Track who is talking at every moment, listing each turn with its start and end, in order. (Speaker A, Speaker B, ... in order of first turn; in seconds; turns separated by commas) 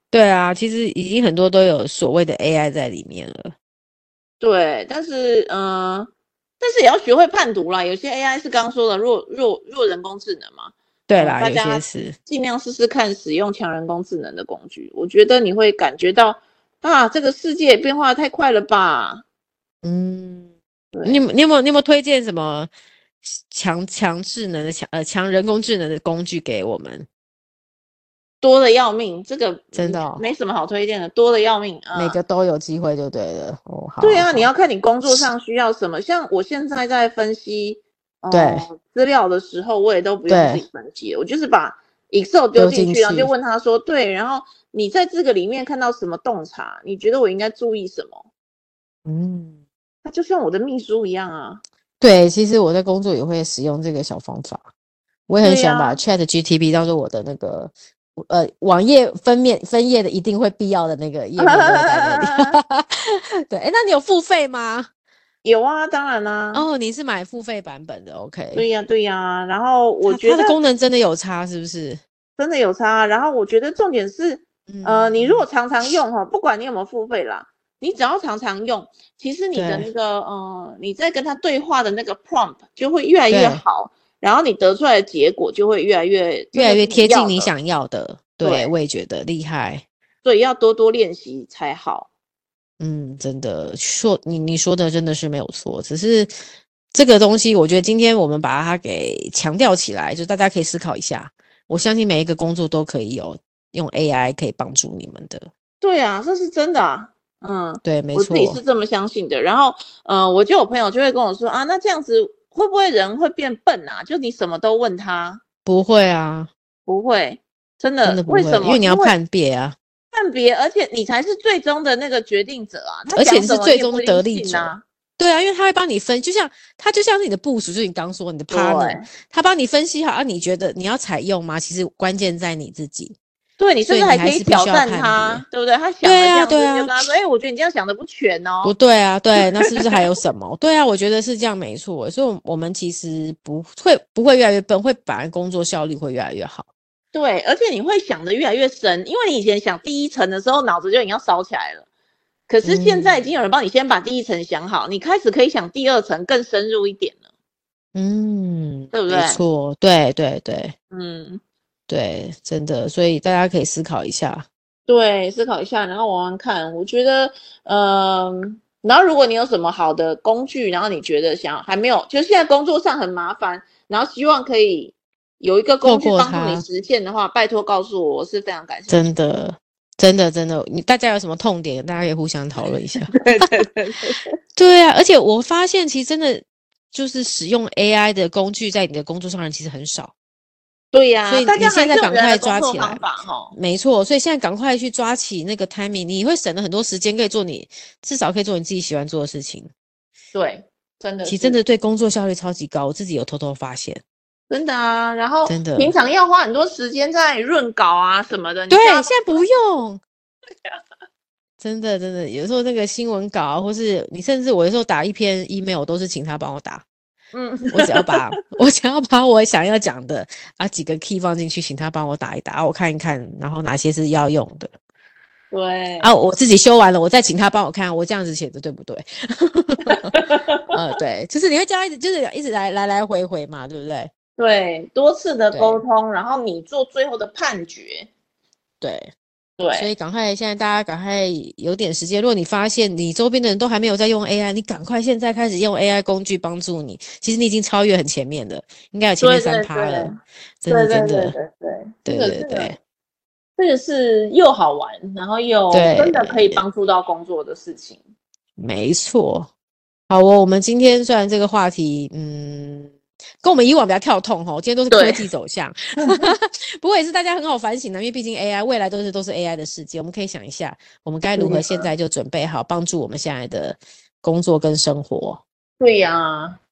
Speaker A: 0.1-3.5, Speaker B: 4.4-19.2, Speaker A: 11.1-12.2, Speaker A: 19.8-20.5, Speaker B: 20.9-21.2, Speaker A: 21.0-22.7, Speaker A: 23.2-27.1, Speaker B: 28.4-32.2, Speaker A: 29.7-30.2, Speaker A: 31.9-34.5, Speaker B: 34.0-48.2, Speaker A: 35.0-35.3, Speaker A: 38.3-38.6, Speaker A: 40.3-40.6, Speaker A: 42.5-43.3, Speaker A: 49.0-49.6, Speaker B: 50.0-51.6, Speaker A: 52.0-54.7, Speaker A: 55.3-64.9, Speaker B: 55.4-56.0, Speaker B: 61.4-62.6, Speaker B: 65.4-66.6, Speaker A: 66.5-68.7, Speaker B: 68.5-70.5, Speaker A: 70.0-72.0, Speaker B: 72.4-87.5, Speaker A: 74.7-75.4, Speaker A: 79.5-79.9, Speaker A: 83.3-83.6, Speaker A: 86.5-89.8, Speaker B: 88.4-88.7, Speaker B: 90.2-92.1, Speaker A: 92.8-96.3, Speaker A: 96.9-105.5, Speaker B: 105.8-115.4, Speaker A: 107.8-108.6, Speaker A: 115.7-116.5, Speaker B: 116.9-119.1, Speaker A: 118.0-119.8, Speaker B: 120.1-124.8, Speaker A: 123.1-133.2, Speaker B: 128.5-129.0, Speaker B: 133.6-138.7, Speaker A: 133.8-135.4, Speaker A: 136.0-136.9, Speaker A: 138.6-146.7, Speaker B: 147.1-151.8, Speaker B: 152.5-157.2, Speaker A: 152.6-153.2, Speaker A: 157.9-160.7, Speaker B: 158.9-159.4, Speaker B: 160.9-161.4, Speaker A: 161.9-164.4, Speaker B: 164.9-179.0, Speaker A: 175.8-176.6, Speaker A: 178.9-183.5, Speaker B: 183.1-184.2, Speaker A: 184.6-190.1, Speaker B: 190.9-193.5, Speaker A: 191.3-199.7, Speaker B: 200.3-201.6, Speaker A: 201.2-204.0, Speaker B: 204.5-209.4, Speaker A: 205.4-205.9, Speaker A: 208.7-210.0, Speaker A: 211.6-216.8, Speaker B: 217.3-218.2, Speaker A: 217.7-224.7, Speaker B: 225.5-226.1, Speaker A: 226.0-234.1, Speaker B: 230.2-230.8, Speaker B: 234.4-238.1, Speaker A: 235.5-235.8, Speaker A: 238.8-239.1, Speaker B: 239.6-239.9, Speaker A: 239.7-250.1, Speaker B: 249.2-250.2, Speaker A: 250.6-251.3, Speaker B: 250.7-252.7, Speaker A: 252.0-252.8, Speaker B: 253.6-258.0, Speaker A: 255.7-256.6, Speaker A: 258.6-259.5, Speaker A: 260.1-275.4, Speaker B: 264.9-265.2, Speaker B: 271.4-271.9, Speaker B: 275.8-276.6